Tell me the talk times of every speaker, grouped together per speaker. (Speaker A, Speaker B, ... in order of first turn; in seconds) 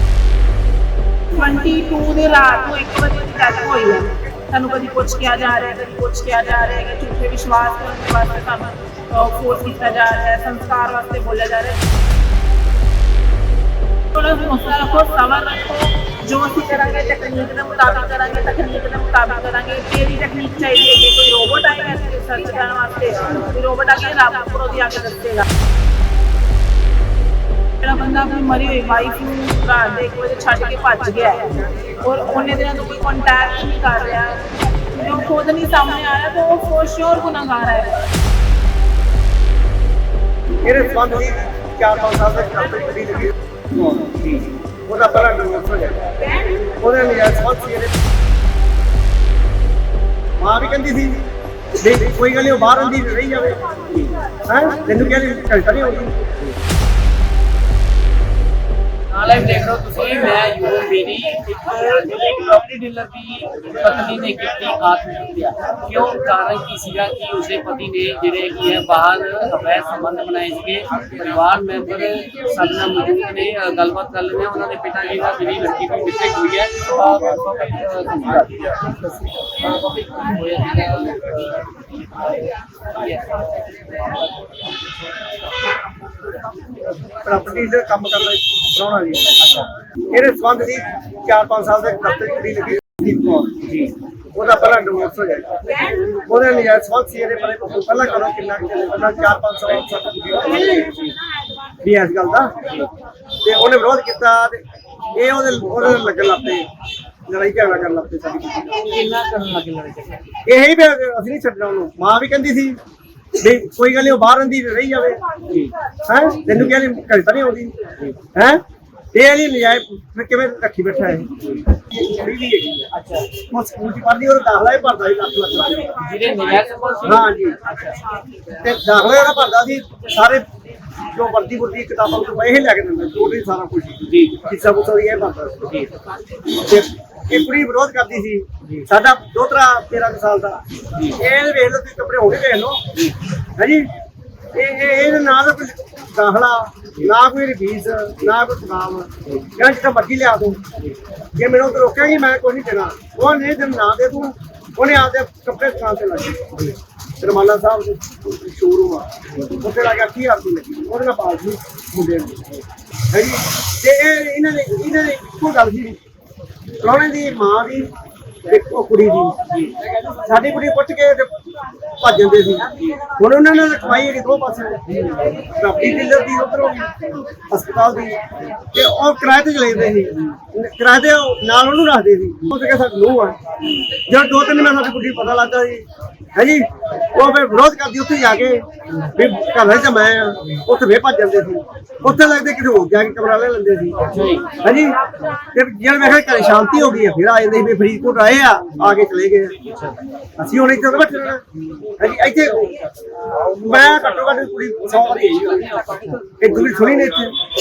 Speaker A: 1.3-11.8, 14.1-25.5, 27.8-31.4, 32.0-34.4, 34.9-38.0
Speaker B: 40.6-44.0, 44.9-46.0, 46.7-48.0, 50.4-51.2, 51.8-53.6, 54.5-56.1, 87.2-89.3, 90.1-93.5, 94.3-95.5, 96.2-100.6, 101.8-102.5, 103.4-104.6, 105.1-106.7, 107.2-108.5, 110.5-112.8, 113.3-115.2, 116.0-117.7, 118.3-121.3, 121.9-122.9, 123.5-125.9, 127.0-127.6, 128.6-130.4, 131.1-135.7, 136.6-140.6, 141.2-142.8, 143.6-143.9, 144.5-150.6, 151.3-156.4, 157.2-159.1, 159.6-162.6, 163.1-166.0, 166.8-167.9, 168.5-169.3, 170.2-171.3, 172.0-174.8, 175.5-176.9, 177.5-178.2, 178.7-183.4, 184.1-185.8, 186.3-188.6, 189.2-194.0, 194.6-199.6, 200.4-201.4, 202.0-202.7, 203.6-205.6, 206.4-207.3
Speaker C: 44.2-44.5, 59.1-78.8, 79.5-84.7, 89.4-89.7, 93.6-93.9, 100.7-101.1, 108.6-110.3, 122.9-123.3, 126.0-128.0, 134.0-134.4, 135.6-135.9, 138.6-138.8, 169.5-169.7, 174.9-175.4, 194.0-194.6, 199.6-199.9, 204.9-206.7